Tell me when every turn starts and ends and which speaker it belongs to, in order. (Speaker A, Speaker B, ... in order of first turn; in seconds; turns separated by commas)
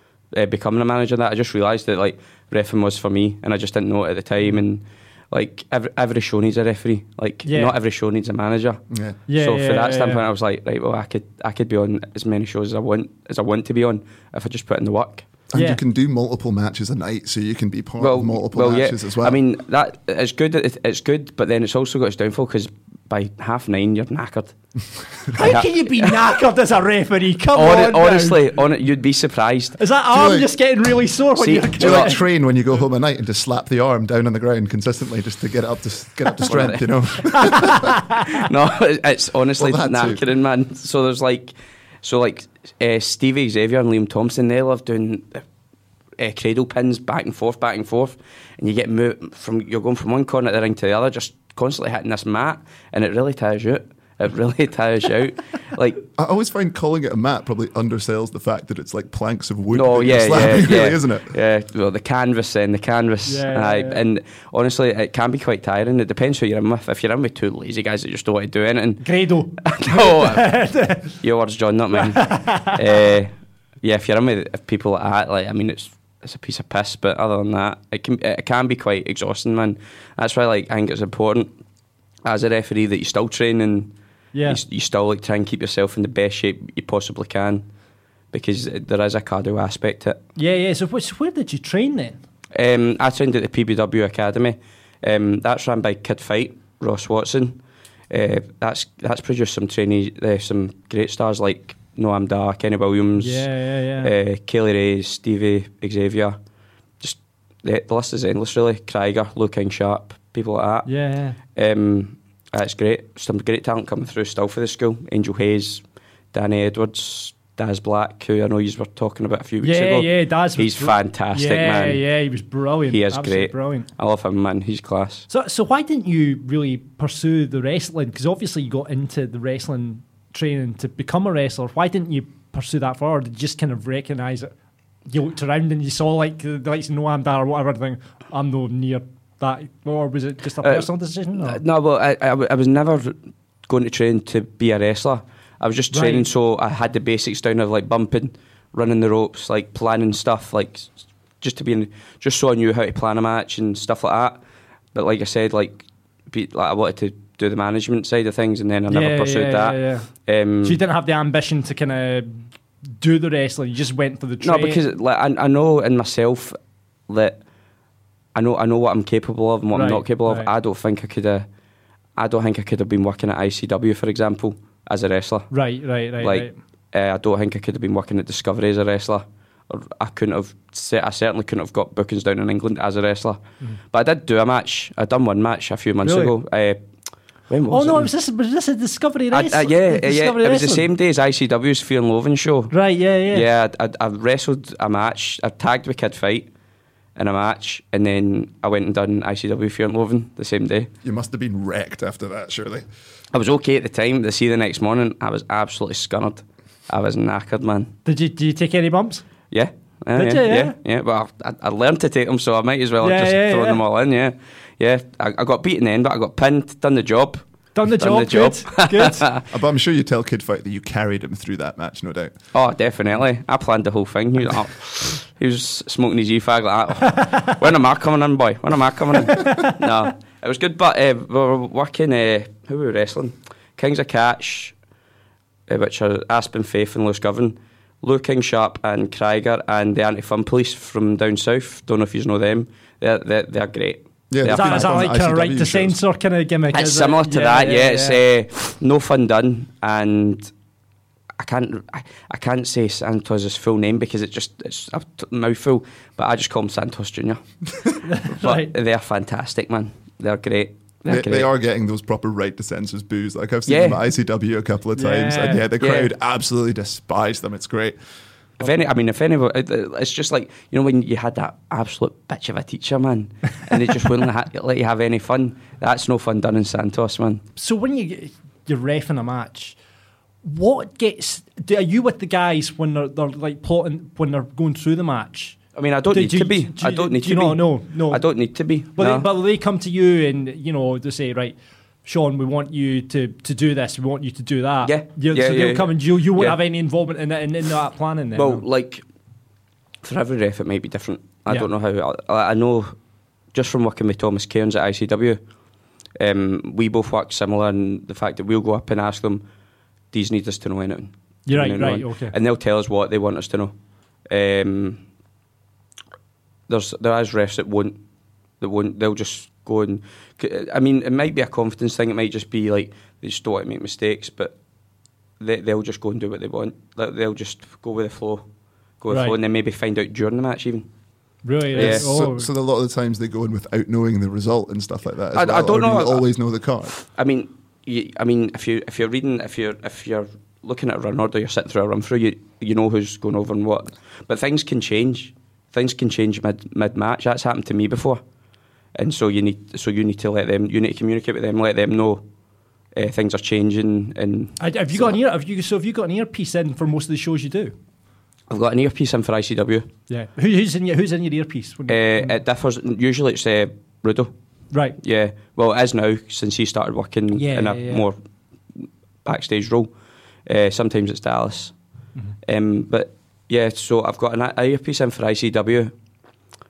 Speaker A: 0.3-15.3, Speaker B: 7.4-7.7, Speaker C: 8.9-9.2, Speaker B: 9.3-10.2, Speaker C: 15.5-19.4, Speaker B: 15.5-15.8, Speaker A: 18.0-24.5, Speaker B: 25.3-28.5, Speaker A: 25.4-26.4, Speaker A: 27.5-29.9, Speaker B: 29.8-32.2, Speaker C: 30.1-30.6, Speaker A: 31.3-32.1, Speaker C: 31.8-38.0, Speaker A: 36.4-36.9, Speaker B: 37.3-38.3, Speaker A: 38.3-45.4, Speaker C: 39.6-40.2, Speaker A: 46.2-56.0, Speaker C: 56.1-61.3, Speaker A: 59.7-69.1, Speaker B: 63.2-64.0, Speaker B: 69.0-71.1, Speaker A: 69.6-70.7, Speaker A: 71.2-81.5, Speaker B: 72.0-72.8, Speaker A: 82.2-87.7, Speaker B: 84.3-84.6, Speaker A: 88.3-90.2, Speaker B: 90.3-92.2, Speaker A: 92.5-97.6, Speaker A: 98.1-103.5, Speaker B: 103.2-104.1, Speaker A: 104.0-106.4, Speaker A: 107.0-110.9, Speaker B: 110.8-111.4, Speaker A: 111.5-122.0, Speaker B: 119.6-123.9, Speaker A: 122.9-125.3, Speaker B: 125.3-134.5, Speaker B: 135.1-141.6, Speaker A: 140.6-154.4, Speaker B: 145.9-146.3, Speaker A: 154.9-160.8, Speaker B: 158.9-160.1, Speaker B: 160.6-162.5, Speaker B: 163.0-164.8, Speaker A: 164.4-166.6, Speaker A: 167.1-167.4, Speaker A: 168.3-171.5, Speaker B: 169.7-170.5, Speaker A: 172.2-175.7, Speaker B: 175.5-176.6, Speaker A: 176.2-183.4, Speaker A: 183.9-186.8, Speaker B: 186.0-186.3, Speaker A: 187.5-188.1, Speaker B: 187.7-190.9, Speaker A: 189.3-192.7, Speaker B: 192.7-193.4, Speaker A: 193.3-196.5, Speaker A: 197.2-200.9, Speaker C: 201.0-202.8, Speaker A: 203.3-207.9, Speaker B: 208.0-209.2, Speaker A: 209.5-219.4, Speaker B: 210.1-210.8, Speaker B: 213.0-213.8, Speaker B: 217.7-219.2, Speaker C: 219.5-222.3, Speaker A: 222.5-234.8, Speaker A: 235.7-245.1, Speaker C: 244.3-246.0, Speaker B: 244.4-248.2, Speaker A: 246.7-250.5, Speaker A: 251.4-257.4, Speaker B: 258.1-258.7, Speaker A: 258.3-261.5, Speaker C: 261.1-268.0, Speaker A: 263.7-264.0, Speaker B: 264.9-265.6, Speaker A: 265.8-266.1, Speaker A: 268.6-277.4, Speaker B: 277.6-279.8, Speaker B: 280.4-285.6, Speaker A: 285.7-289.3, Speaker B: 286.1-288.2, Speaker B: 288.8-298.6, Speaker A: 294.8-296.6, Speaker A: 298.3-299.0, Speaker A: 300.0-302.9, Speaker A: 303.5-305.4, Speaker A: 306.2-309.4, Speaker A: 310.1-313.7, Speaker B: 311.5-312.3, Speaker A: 314.3-315.0, Speaker A: 316.7-318.0, Speaker A: 318.6-324.6, Speaker A: 325.4-328.5, Speaker A: 329.0-330.9, Speaker B: 329.1-329.3, Speaker B: 331.4-332.5, Speaker A: 331.7-332.2, Speaker C: 331.7-336.9, Speaker A: 335.3-336.3, Speaker A: 336.9-348.2, Speaker A: 348.9-352.2, Speaker A: 352.9-355.1, Speaker B: 354.6-357.7, Speaker A: 358.5-359.9, Speaker B: 360.1-362.4, Speaker A: 361.9-364.3, Speaker A: 365.0-368.2, Speaker B: 367.3-368.1, Speaker A: 368.7-369.9, Speaker A: 370.4-371.8, Speaker A: 372.4-375.9